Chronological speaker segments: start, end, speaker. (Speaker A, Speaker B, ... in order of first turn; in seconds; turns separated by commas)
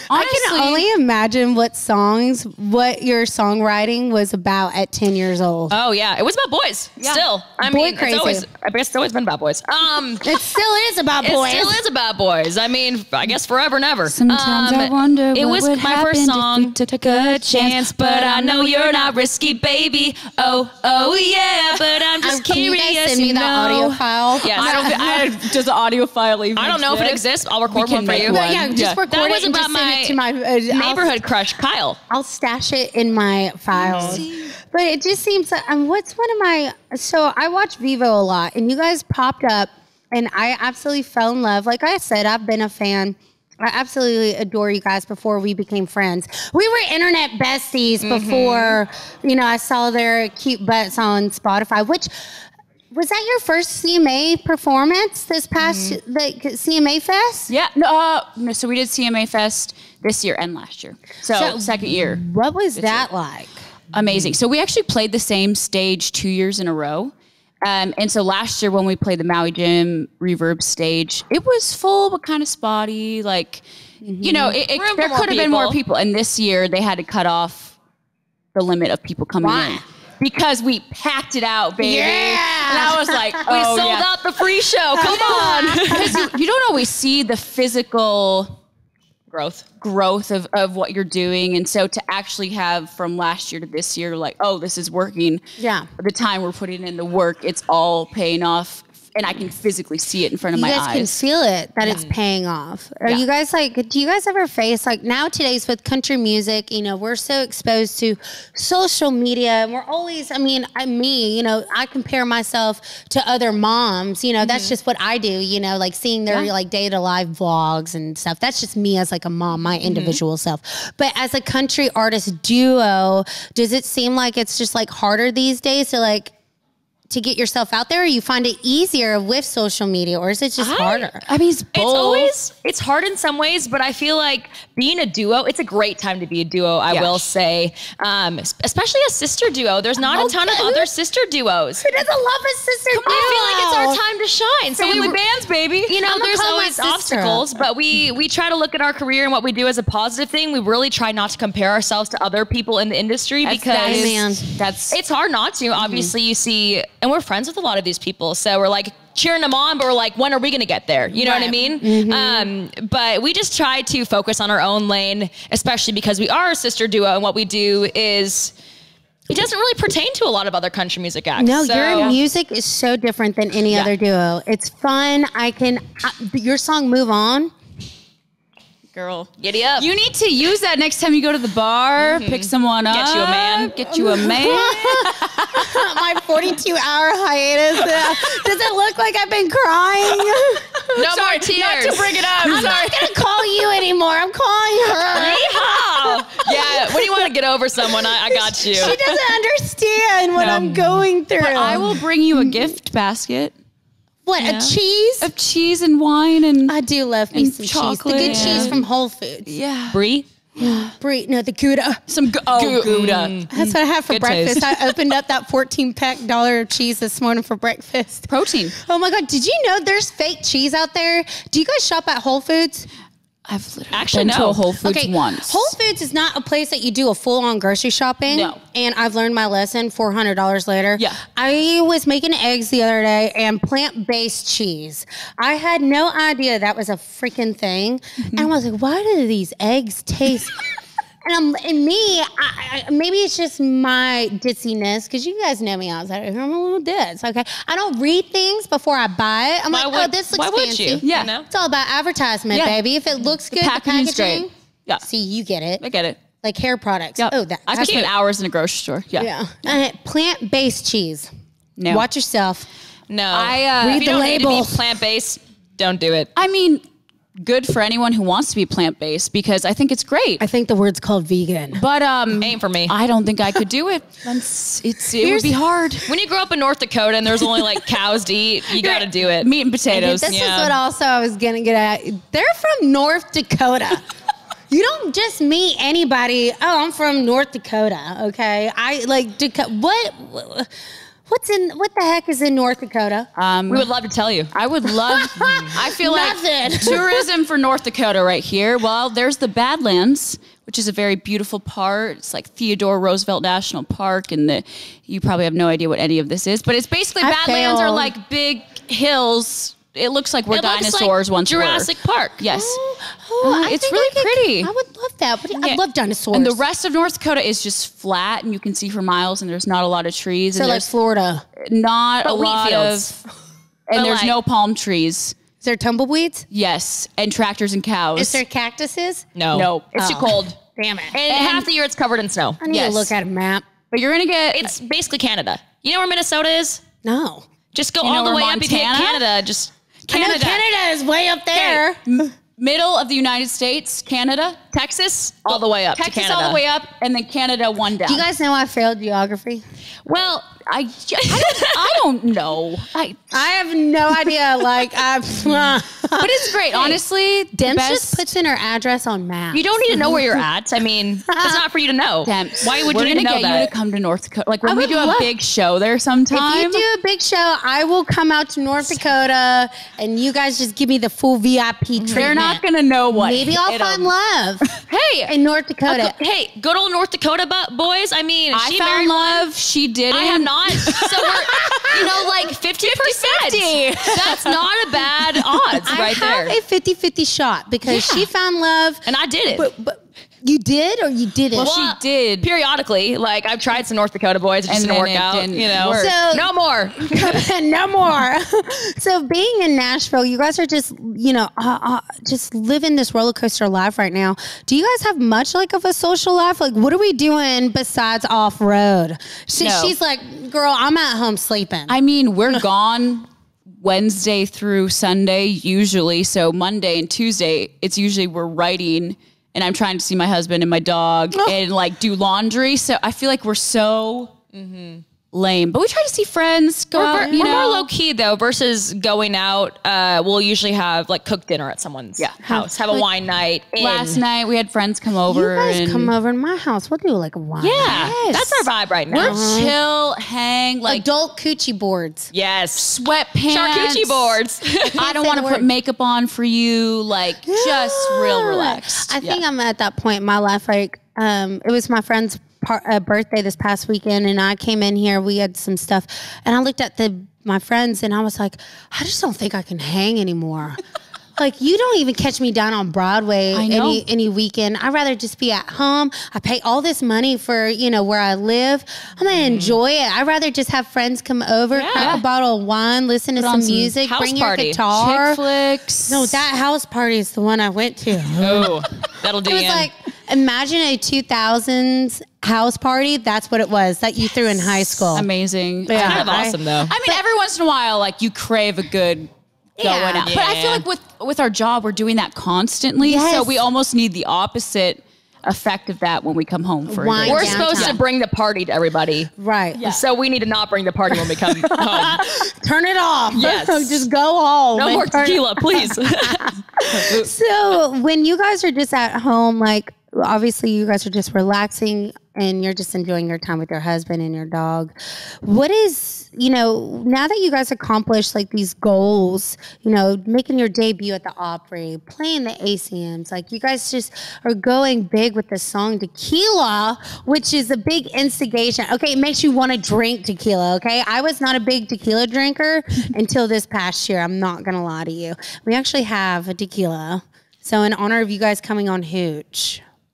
Speaker A: 0.1-0.9, Speaker B: 0.1-5.7, Speaker C: 5.7-10.2, Speaker A: 7.0-7.2, Speaker B: 7.6-8.4, Speaker B: 10.2-11.8, Speaker C: 11.2-16.8, Speaker A: 14.1-19.3, Speaker C: 17.5-25.1, Speaker B: 22.2-25.3, Speaker A: 23.7-29.0, Speaker C: 26.6-28.4, Speaker B: 28.1-31.1, Speaker C: 29.0-30.2, Speaker C: 30.7-32.0, Speaker B: 32.1-52.1, Speaker C: 33.8-34.2, Speaker A: 33.8-34.5, Speaker C: 48.0-48.8, Speaker B: 52.9-57.5, Speaker A: 57.5-62.2, Speaker B: 61.3-63.5, Speaker A: 62.7-63.1, Speaker A: 63.9-73.6, Speaker B: 74.0-74.5, Speaker A: 74.2-77.8, Speaker C: 74.7-75.8, Speaker A: 78.5-84.1, Speaker B: 79.4-79.8, Speaker B: 81.8-83.3, Speaker C: 83.5-86.2, Speaker B: 85.0-86.3, Speaker A: 85.0-88.6, Speaker C: 89.3-89.7, Speaker A: 89.8-95.4, Speaker B: 95.6-95.9, Speaker A: 96.0-101.1, Speaker B: 100.5-126.3, Speaker C: 114.4-114.7, Speaker B: 127.1-131.2, Speaker A: 130.6-132.3, Speaker C: 130.7-131.1, Speaker C: 131.7-141.8, Speaker A: 136.9-137.2, Speaker B: 140.1-140.9, Speaker B: 141.8-144.0, Speaker A: 142.9-143.4, Speaker C: 143.1-145.2, Speaker A: 144.8-145.9, Speaker B: 144.8-145.1, Speaker C: 145.9-154.2, Speaker B: 145.9-147.5, Speaker A: 153.4-155.0, Speaker B: 153.8-154.5, Speaker C: 154.9-168.5, Speaker B: 155.8-156.1, Speaker A: 161.2-161.6, Speaker B: 161.3-162.5, Speaker C: 169.3-172.1, Speaker B: 171.4-177.5, Speaker A: 171.9-172.2, Speaker A: 178.9-186.0, Speaker C: 179.4-179.9, Speaker C: 182.1-183.8, Speaker B: 183.8-190.8, Speaker A: 187.9-188.5, Speaker A: 190.2-193.2, Speaker C: 190.9-192.7, Speaker B: 192.3-197.2, Speaker C: 195.1-198.9, Speaker B: 198.0-202.0, Speaker A: 198.8-199.2, Speaker A: 200.4-203.5, Speaker B: 204.2-205.3, Speaker C: 204.4-204.8, Speaker A: 205.2-206.7, Speaker B: 206.7-209.5, Speaker A: 207.3-208.8, Speaker C: 208.2-208.8, Speaker A: 209.4-210.0, Speaker C: 209.9-210.2, Speaker B: 210.6-212.0, Speaker A: 210.6-210.9, Speaker A: 212.1-213.7, Speaker C: 212.5-213.5, Speaker B: 213.5-222.9, Speaker C: 214.1-214.7, Speaker A: 218.3-218.7, Speaker A: 223.5-225.7, Speaker C: 223.9-224.6, Speaker B: 224.8-240.6, Speaker A: 228.3-228.6, Speaker B: 241.2-255.8, Speaker C: 249.7-251.5, Speaker A: 251.0-251.3, Speaker A: 252.5-252.8, Speaker A: 253.3-255.0, Speaker A: 255.8-256.2, Speaker B: 256.4-258.1, Speaker A: 257.2-259.3, Speaker B: 259.1-261.3, Speaker A: 261.8-262.1, Speaker B: 261.9-262.7, Speaker C: 263.1-266.3, Speaker A: 263.3-264.1, Speaker B: 263.8-264.9, Speaker A: 266.3-266.8, Speaker A: 267.4-270.4, Speaker B: 270.4-271.8, Speaker A: 271.7-276.1, Speaker C: 272.4-272.9, Speaker B: 275.2-275.6, Speaker C: 276.1-279.5, Speaker A: 278.9-280.4, Speaker B: 279.9-284.0, Speaker C: 280.3-280.7, Speaker B: 284.7-290.7, Speaker B: 291.3-293.3, Speaker A: 293.3-293.9, Speaker C: 293.7-294.5, Speaker A: 294.5-312.8, Speaker B: 294.9-297.2, Speaker B: 307.2-308.1, Speaker C: 310.5-312.4, Speaker B: 312.5-316.6, Speaker A: 313.4-314.7, Speaker A: 315.6-315.8, Speaker A: 316.3-320.9, Speaker B: 320.5-321.4, Speaker A: 321.6-323.2, Speaker C: 322.2-323.1, Speaker A: 323.9-325.4, Speaker C: 323.9-324.3, Speaker B: 325.6-326.5, Speaker A: 326.5-328.4, Speaker B: 328.1-329.2, Speaker C: 329.4-330.6, Speaker A: 329.5-329.9, Speaker B: 329.9-331.1, Speaker C: 331.1-332.6, Speaker A: 331.3-331.7, Speaker B: 332.6-333.6, Speaker A: 332.6-333.1, Speaker A: 333.9-334.7, Speaker C: 334.5-336.8, Speaker B: 337.0-337.4, Speaker C: 337.7-340.6, Speaker A: 338.0-339.3, Speaker B: 340.1-342.0, Speaker A: 341.5-344.6, Speaker C: 344.7-346.6, Speaker A: 345.5-348.2, Speaker B: 348.1-349.6, Speaker C: 350.1-350.5, Speaker A: 350.6-353.4, Speaker C: 351.2-352.0, Speaker B: 353.3-357.0, Speaker A: 356.1-358.3, Speaker B: 357.5-360.4, Speaker C: 359.5-363.7, Speaker B: 361.3-361.6, Speaker A: 362.2-366.8, Speaker B: 364.6-365.3, Speaker B: 366.3-374.6, Speaker C: 372.0-372.3, Speaker A: 372.1-374.1, Speaker C: 374.9-375.3, Speaker B: 375.3-376.1, Speaker C: 375.9-379.4, Speaker A: 378.5-382.2, Speaker C: 380.1-386.6, Speaker B: 381.5-382.1, Speaker A: 382.8-385.8, Speaker B: 385.9-391.7, Speaker C: 387.9-388.2, Speaker C: 389.1-389.7, Speaker A: 391.5-392.5, Speaker C: 391.5-397.4, Speaker A: 394.7-396.2, Speaker B: 395.8-411.9, Speaker A: 409.6-409.9, Speaker A: 411.9-424.3, Speaker C: 424.5-425.0, Speaker A: 425.3-427.9, Speaker C: 426.9-434.2, Speaker B: 427.1-427.8, Speaker B: 432.4-433.0, Speaker A: 433.8-436.1, Speaker B: 435.3-438.2, Speaker C: 437.6-439.4, Speaker A: 437.8-441.0, Speaker B: 439.1-439.7, Speaker B: 440.9-442.3, Speaker C: 442.3-442.9, Speaker A: 442.8-444.4, Speaker C: 443.5-444.9, Speaker B: 444.8-445.7, Speaker A: 444.9-449.4, Speaker B: 447.4-460.8, Speaker B: 461.4-475.4, Speaker A: 463.5-464.0, Speaker C: 471.7-472.2, Speaker A: 471.9-472.2, Speaker A: 473.4-473.9, Speaker C: 474.0-474.8, Speaker A: 474.9-476.4, Speaker B: 476.1-478.7, Speaker C: 478.4-479.9, Speaker B: 479.4-485.3, Speaker A: 484.4-498.0, Speaker B: 485.9-487.2, Speaker C: 485.9-486.9, Speaker B: 489.8-490.3, Speaker C: 490.2-490.8, Speaker B: 493.0-493.7, Speaker B: 496.9-498.0, Speaker C: 497.2-499.3, Speaker B: 499.4-499.9, Speaker A: 499.8-500.0, Speaker C: 499.8-502.2, Speaker B: 501.6-539.8, Speaker C: 503.3-504.0, Speaker C: 504.7-507.2, Speaker A: 506.9-507.2